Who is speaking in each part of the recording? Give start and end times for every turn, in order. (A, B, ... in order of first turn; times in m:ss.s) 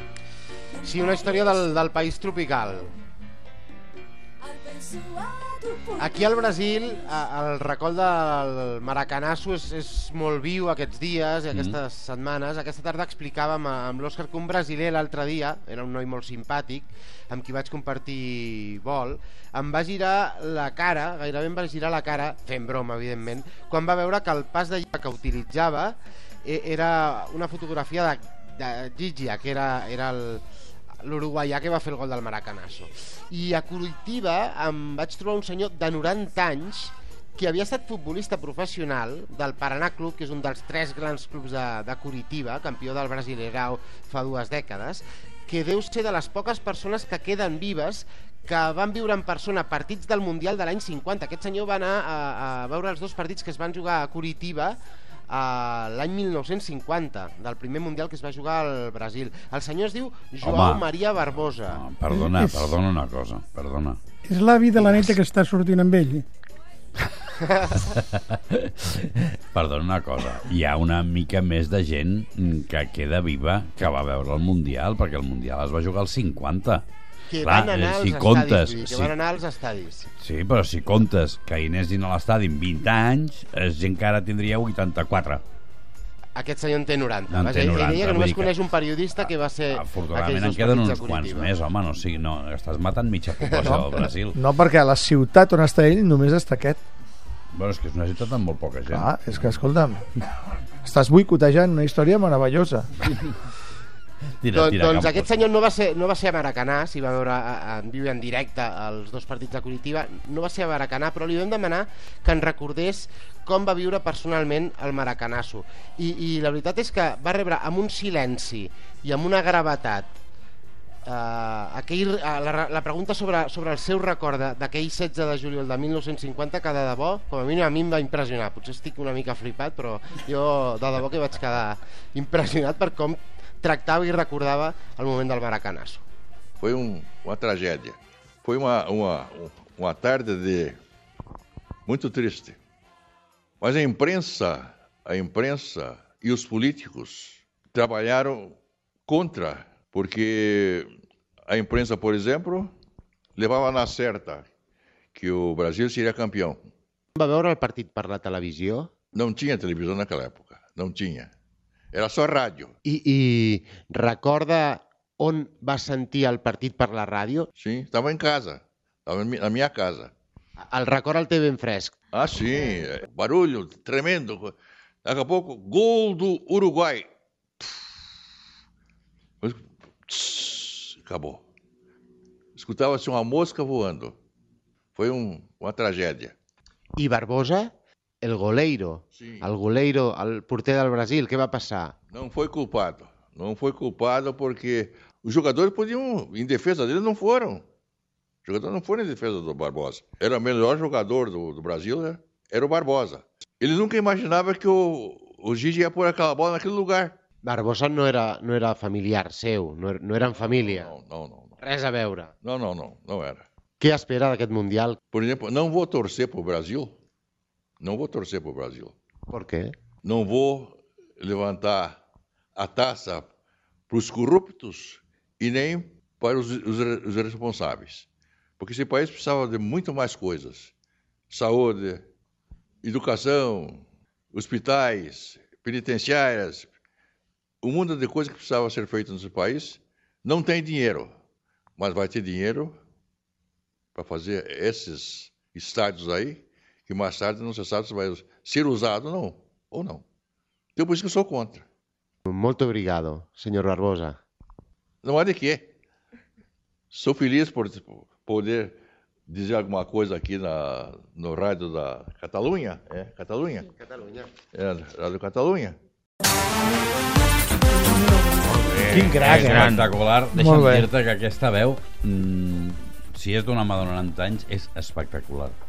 0:00.8-0:02.9 A
0:05.7-0:30.4 A
0:11.5-0:11.8 B
0:31.0-1:01.8 A
1:00.4-1:00.8 B
1:01.7-1:04.0 B
1:02.1-1:02.7 C
1:04.2-1:06.2 C
1:04.8-1:05.2 A
1:07.8-1:16.8 B
1:17.3-1:20.1 A
1:17.4-1:19.1 B
1:20.2-1:25.4 B
1:26.4-1:31.5 A
1:27.3-1:28.5 B
1:29.7-1:34.4 B
1:33.6-1:36.8 D
1:37.5-1:39.1 B
1:38.9-1:40.0 D
1:40.8-1:42.9 D
1:44.4-1:45.5 B
1:44.5-2:00.1 A
2:01.0-2:16.0 A
2:16.6-2:20.8 E
2:21.9-2:22.6 E
2:23.6-2:30.9 E
2:31.5-2:32.7 E
2:33.4-2:34.5 E
2:35.1-2:36.6 E
2:37.2-2:38.9 A
2:39.1-2:41.3 E
2:41.9-2:42.8 E
2:42.8-2:47.5 A
2:47.6-2:50.1 E
2:50.7-2:51.9 A
2:52.1-2:57.1 E
2:59.4-3:01.4 E
3:02.6-3:04.2 E
3:05.0-3:06.4 E
3:07.0-3:11.9 A
3:09.2-3:09.4 E
3:12.1-3:17.6 E
3:18.4-3:27.2 E
3:27.4-3:30.9 A
3:30.4-3:31.6 E
3:31.6-3:32.3 A
3:32.4-3:33.5 E
3:33.8-3:35.0 A
3:35.1-3:37.0 E
3:37.8-3:39.0 E
3:39.3-3:39.7 A
3:40.0-3:42.0 E
3:42.6-3:43.3 E
3:43.9-3:48.1 E
3:48.6-3:50.7 E
3:51.3-3:52.0 E
3:52.8-3:53.8 E
3:54.3-3:56.7 E
3:57.6-4:01.1 E
4:01.8-4:02.8 E
4:03.9-4:10.0 E
4:10.8-4:11.6 E
4:12.3-4:14.2 A
4:15.0-4:15.7 E
4:16.9-4:23.7 E
4:23.8-4:24.3 A
4:24.5-4:25.8 E
4:28.8-4:30.9 D
4:28.9-4:35.6 B